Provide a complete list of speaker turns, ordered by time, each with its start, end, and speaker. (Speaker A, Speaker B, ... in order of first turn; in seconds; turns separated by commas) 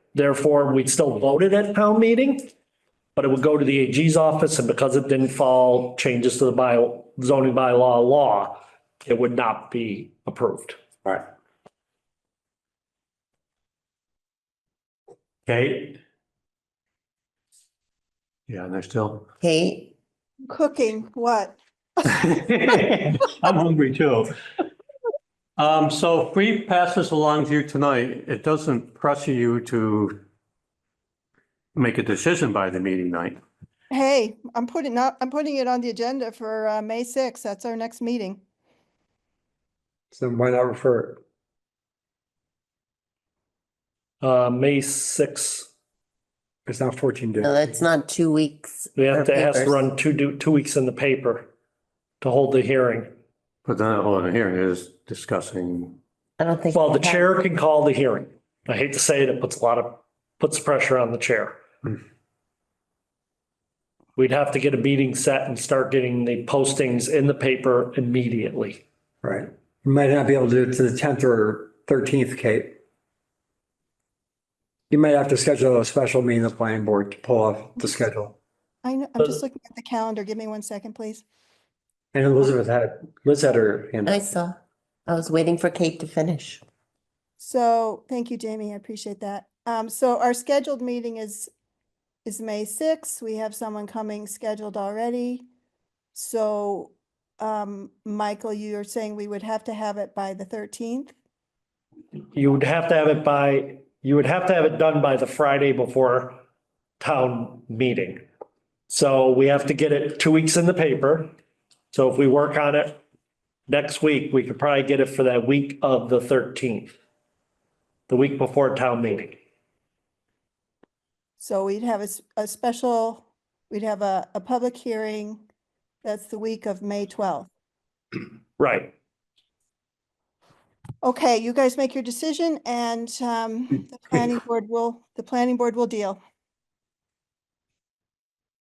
Speaker A: 0.1-2.5, Speaker A: 3.2-10.8, Speaker B: 15.5-16.0, Speaker B: 18.5-19.3, Speaker C: 19.4-19.9, Speaker D: 20.5-21.6, Speaker B: 22.1-24.3, Speaker B: 25.6-30.2, Speaker B: 31.8-33.4, Speaker D: 33.9-38.4, Speaker E: 40.1-41.2, Speaker A: 44.2-45.7, Speaker E: 46.7-47.7, Speaker C: 47.4-49.8, Speaker A: 49.0-51.5, Speaker A: 52.2-53.1, Speaker B: 53.6-56.0, Speaker C: 56.4-57.3, Speaker A: 56.7-61.6, Speaker A: 64.2-68.8, Speaker E: 69.2-72.8, Speaker E: 74.9-78.4, Speaker D: 78.8-81.2, Speaker E: 82.1-84.3, Speaker C: 84.0-86.6, Speaker D: 87.4-91.5, Speaker D: 92.2-95.5, Speaker D: 96.2-101.1, Speaker A: 102.3-106.4, Speaker A: 107.0-108.2, Speaker A: 108.9-111.3, Speaker A: 111.9-113.0, Speaker A: 113.7-116.9, Speaker A: 118.1-119.4, Speaker D: 121.4-125.4, Speaker D: 126.0-127.5, Speaker A: 128.6-128.9, Speaker D: 131.0-136.2